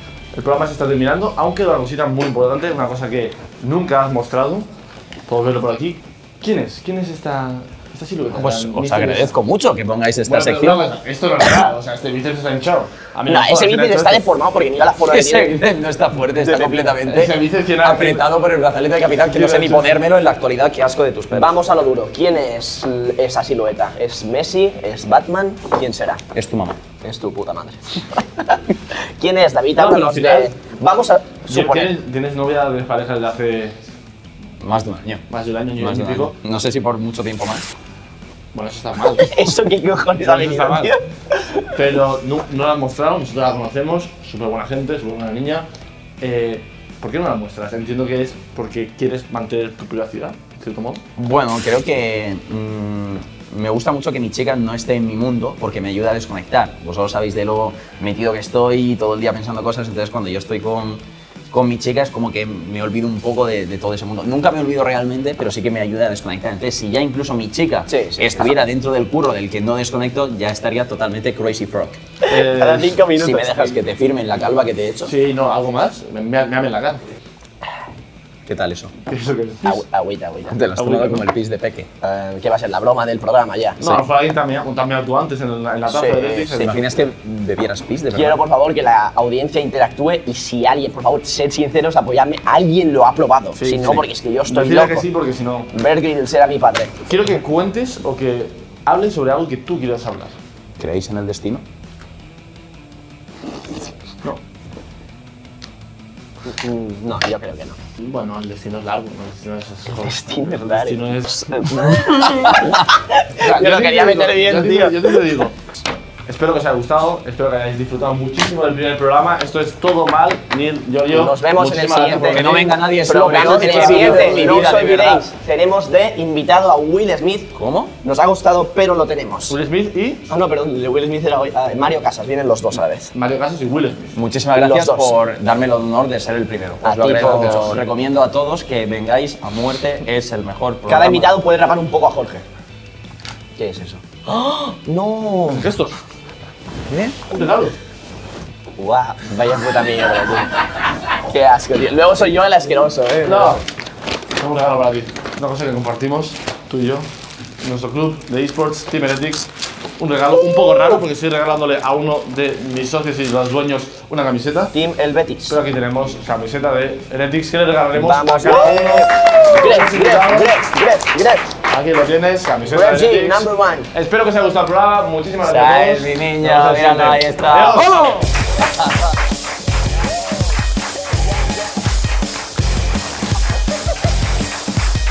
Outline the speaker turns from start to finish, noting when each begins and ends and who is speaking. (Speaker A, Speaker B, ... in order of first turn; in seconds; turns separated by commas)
Speaker A: 0.3-4.7, Speaker A: 5.3-9.3, Speaker B: 8.3-10.8, Speaker A: 10.2-14.2, Speaker C: 13.3-15.6, Speaker B: 15.0-21.5, Speaker C: 16.4-17.0, Speaker A: 16.9-18.3, Speaker A: 19.2-20.0, Speaker C: 21.3-26.2, Speaker B: 26.3-26.8, Speaker C: 27.0-31.9, Speaker A: 29.8-30.5, Speaker A: 31.5-33.8, Speaker B: 34.6-35.2, Speaker A: 35.3-36.3, Speaker B: 35.8-37.7, Speaker A: 38.5-39.4, Speaker C: 39.2-41.7, Speaker A: 40.2-40.9, Speaker A: 41.7-45.6, Speaker A: 46.2-51.0, Speaker B: 51.2-72.0, Speaker C: 67.9-68.6, Speaker C: 72.2-73.8, Speaker A: 72.3-73.0, Speaker B: 73.2-75.1, Speaker A: 75.0-77.0, Speaker B: 78.5-78.9, Speaker A: 79.1-79.8, Speaker C: 79.6-80.6, Speaker B: 80.5-81.9, Speaker A: 80.7-81.3, Speaker C: 82.0-83.8, Speaker A: 83.8-86.8, Speaker C: 85.9-86.7, Speaker B: 86.6-88.4, Speaker C: 88.1-95.0, Speaker A: 93.6-95.7, Speaker C: 95.7-97.0, Speaker A: 97.0-100.3, Speaker B: 100.8-101.6, Speaker C: 106.4-107.8, Speaker A: 108.0-111.5, Speaker C: 109.9-115.2, Speaker A: 113.4-115.5, Speaker A: 116.2-124.8, Speaker C: 121.1-129.6, Speaker B: 122.3-125.3, Speaker B: 127.5-127.9, Speaker A: 129.5-130.2, Speaker C: 130.3-133.1, Speaker A: 133.1-134.2, Speaker B: 134.1-141.4, Speaker C: 134.5-135.1, Speaker C: 136.8-137.8, Speaker A: 136.9-137.8, Speaker C: 140.9-142.4, Speaker C: 143.6-145.7, Speaker A: 145.5-145.9, Speaker B: 146.9-147.2, Speaker A: 147.3-147.8, Speaker C: 148.8-150.5, Speaker C: 151.2-153.6, Speaker A: 153.2-153.6, Speaker A: 154.4-157.1, Speaker A: 157.6-164.7, Speaker C: 164.7-165.6, Speaker A: 165.5-170.6, Speaker C: 167.9-171.5, Speaker A: 171.7-178.2, Speaker C: 172.7-173.9, Speaker B: 175.5-178.2